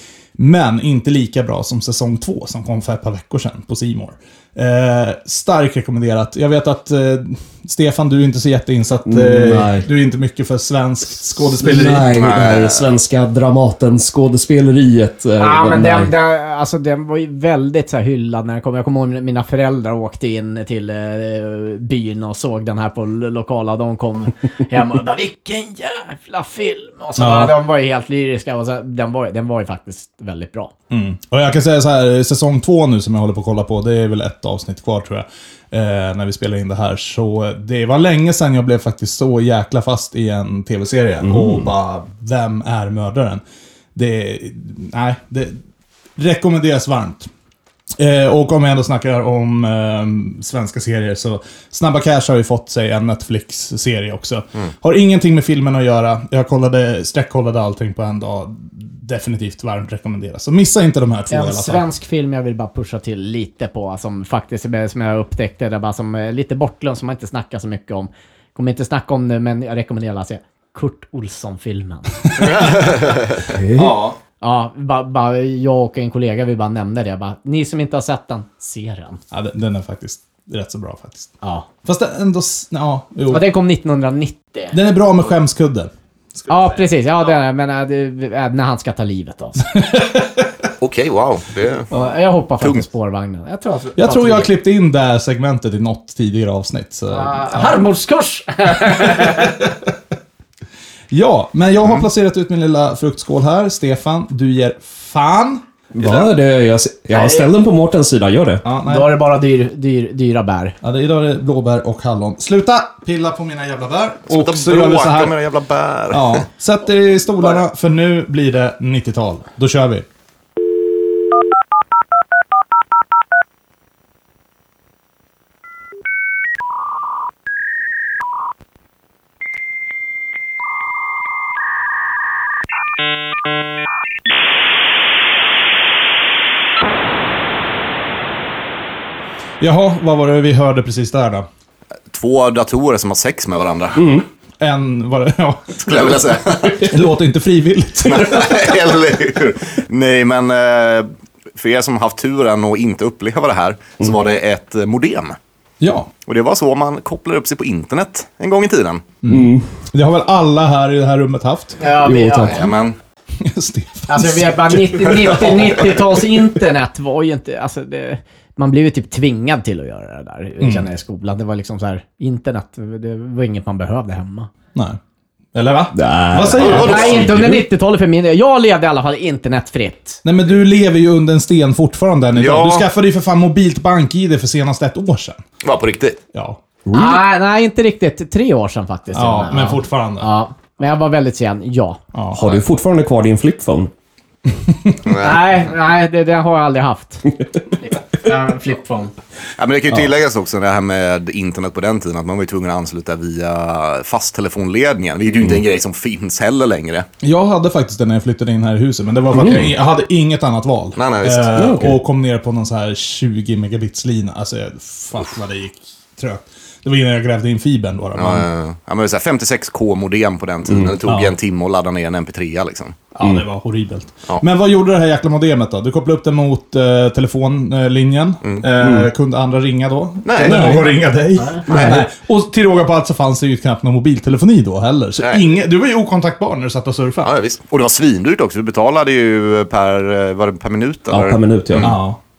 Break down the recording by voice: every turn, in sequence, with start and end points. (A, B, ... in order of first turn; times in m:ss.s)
0:00.4-0:12.2 A
0:09.0-0:09.9 B
0:11.6-0:16.1 B
0:12.1-0:12.9 C
0:15.4-0:30.7 D
0:27.2-0:27.6 A
0:30.9-0:43.4 A
0:41.2-0:41.7 B
0:43.9-0:45.6 A
0:46.2-0:47.3 A
0:48.0-1:01.8 A
1:01.3-1:12.3 D
1:12.4-1:13.4 C
1:12.6-1:12.8 A
1:13.4-1:14.0 B
1:13.8-1:14.2 A
1:14.4-1:19.2 D
1:19.3-1:21.3 A
1:21.4-1:21.7 D
1:21.8-1:23.4 A
1:23.3-1:24.7 D
1:24.7-1:26.8 A
1:26.5-1:29.8 D
1:29.8-1:30.5 A
1:30.8-1:31.9 C
1:31.9-1:34.5 D
1:34.0-1:37.8 A
1:37.1-1:39.6 D
1:38.9-1:39.8 A
1:41.1-1:45.6 A
1:45.9-1:48.6 B
1:46.0-1:46.3 C
1:47.1-1:47.5 D
1:48.6-1:49.2 A
1:48.8-1:50.8 D
1:50.8-1:55.3 A
1:54.3-1:56.4 C
1:56.1-2:00.0 A
2:19.6-2:21.4 A
2:22.1-2:24.0 C
2:24.0-2:24.2 B
2:24.6-2:26.1 A
2:25.8-2:26.9 C
2:26.8-2:28.8 A
2:28.0-2:35.4 C
2:35.8-2:36.1 A
2:36.2-2:39.0 C
2:39.2-2:41.8 A
2:39.3-2:39.7 B
2:41.8-2:42.7 D
2:42.0-2:42.7 B
2:42.5-2:43.0 C
2:43.4-2:45.8 A
2:44.1-2:54.5 D
2:50.6-2:50.9 A
2:55.5-2:57.3 A
2:55.9-2:57.6 B
2:56.6-2:57.5 C
2:56.6-3:00.2 D
3:00.2-3:05.4 A
3:02.3-3:02.8 C
3:05.6-3:06.2 C
3:06.3-3:06.6 A
3:06.8-3:07.3 B
3:06.9-3:12.0 D
3:09.1-3:10.3 A
3:12.1-3:12.4 A
3:12.3-3:13.9 B
3:14.6-3:15.0 A
3:15.0-3:15.5 C
3:15.2-3:19.1 D
3:19.6-3:27.1 C
3:27.2-3:38.4 A
3:29.3-3:29.7 B
3:31.0-3:31.6 C
3:31.6-3:32.0 B
3:38.2-3:43.0 C
3:40.7-3:40.9 B
3:41.0-3:41.3 A
3:43.1-3:57.3 A
3:48.8-3:49.1 B
3:50.2-3:50.9 C
3:50.4-3:50.9 B
3:51.4-3:51.6 D
3:51.6-3:52.1 B
3:51.7-3:52.0 C
3:57.2-4:02.0 C
4:01.1-4:02.0 B
4:01.8-4:02.2 A